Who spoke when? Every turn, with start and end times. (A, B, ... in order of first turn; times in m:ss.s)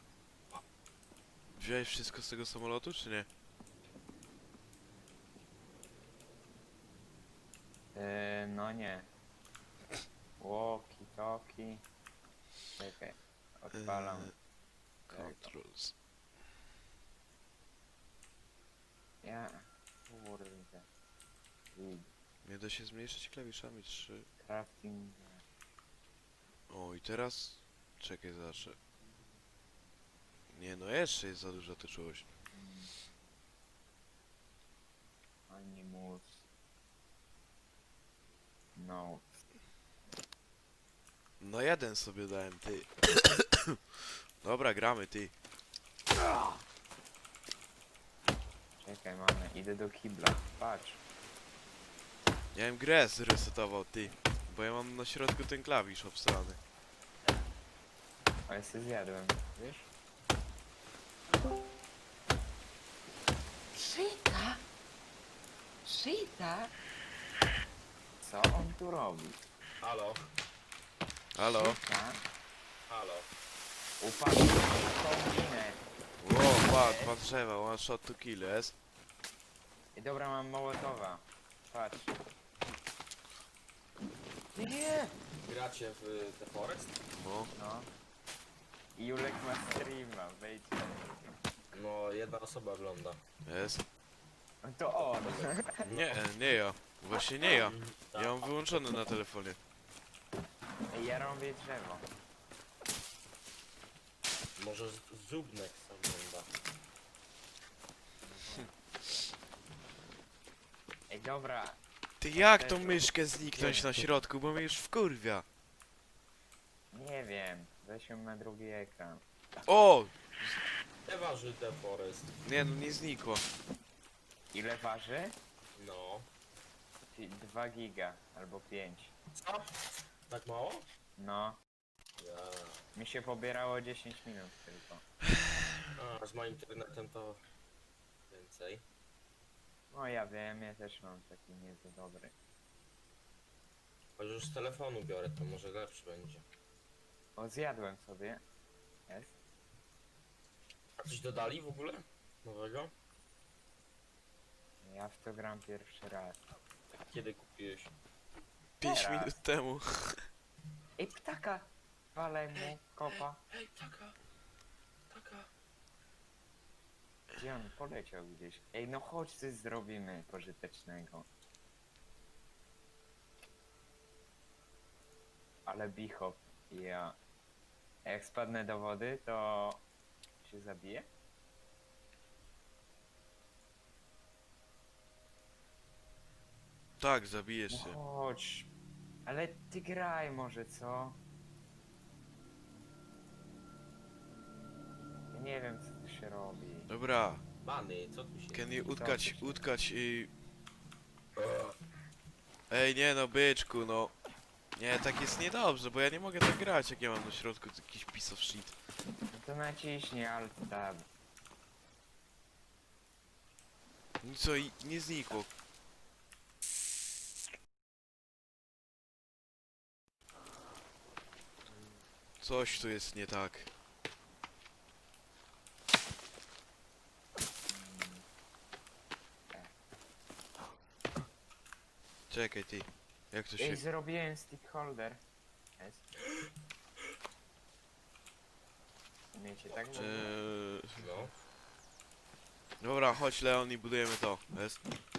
0:01.6-0:03.3 A
0:07.9-0:09.1 B
0:10.4-0:11.8 B
0:12.8-0:14.3 B
0:13.7-0:14.3 A
0:15.1-0:15.9 A
0:15.1-0:15.5 B
0:19.2-0:20.9 B
0:21.7-0:22.1 B
0:22.4-0:24.3 A
0:24.4-0:25.4 B
0:26.7-0:28.8 A
0:30.5-0:32.3 A
0:32.5-0:32.9 B
0:35.5-0:36.4 B
0:38.7-0:39.3 B
0:41.4-0:43.8 A
0:44.4-0:45.3 A
0:48.8-0:51.0 B
0:52.5-0:56.6 A
0:58.5-0:59.9 B
1:03.7-1:04.6 B
1:05.8-1:06.7 B
1:08.2-1:09.4 B
1:09.8-1:10.3 C
1:11.3-1:11.8 A
1:11.5-1:12.2 B
1:12.9-1:13.3 C
1:14.0-1:15.8 B
1:16.2-1:18.7 A
1:16.6-1:17.2 B
1:19.9-1:22.2 B
1:24.5-1:25.2 B
1:25.4-1:27.0 C
1:27.1-1:27.5 A
1:27.5-1:27.9 B
1:29.0-1:31.2 B
1:31.7-1:33.2 C
1:33.4-1:33.8 A
1:34.6-1:35.7 B
1:34.9-1:36.2 C
1:35.9-1:39.6 A
1:37.4-1:39.0 C
1:40.9-1:42.1 B
1:44.6-1:46.5 C
1:48.2-1:48.6 B
1:51.1-1:51.8 B
1:52.2-1:55.4 A
1:52.3-1:54.2 B
1:56.9-1:59.2 B
1:59.6-2:00.6 A
2:01.0-2:02.3 C
2:02.4-2:03.4 A
2:04.5-2:05.4 B
2:05.7-2:06.3 C
2:07.1-2:09.1 B
2:09.4-2:09.7 C
2:10.3-2:10.8 C
2:11.2-2:11.6 B
2:12.2-2:12.8 C
2:12.9-2:15.0 B
2:15.9-2:17.4 C
2:18.3-2:18.8 C
2:19.9-2:22.3 B
2:24.2-2:26.4 C
2:27.4-2:28.4 B
2:29.1-2:29.4 B
2:31.0-2:32.9 C
2:34.8-2:36.4 B
2:37.0-2:37.9 C
2:38.8-2:40.3 A
2:38.8-2:39.4 B
2:41.0-2:43.4 B
2:42.6-2:44.2 C
2:45.1-2:45.5 C
2:47.3-2:51.3 B
2:55.6-2:57.2 B
2:58.0-2:59.8 B
3:00.4-3:01.1 B
3:07.0-3:08.0 A
3:07.7-3:08.7 B
3:09.2-3:11.2 B
3:15.3-3:16.9 B
3:16.9-3:17.4 A
3:17.6-3:18.6 C
3:18.5-3:20.3 A
3:18.9-3:19.6 B
3:21.4-3:21.8 C
3:22.7-3:24.1 A
3:24.8-3:28.8 A
3:29.3-3:31.0 B
3:34.2-3:35.5 A
3:42.4-3:43.7 A
3:47.7-3:48.2 B
3:52.3-3:53.8 A
3:53.6-3:55.2 B
3:55.8-3:56.1 B
3:59.3-4:00.4 B
3:59.9-4:01.1 A
4:00.9-4:01.3 C
4:02.8-4:04.8 A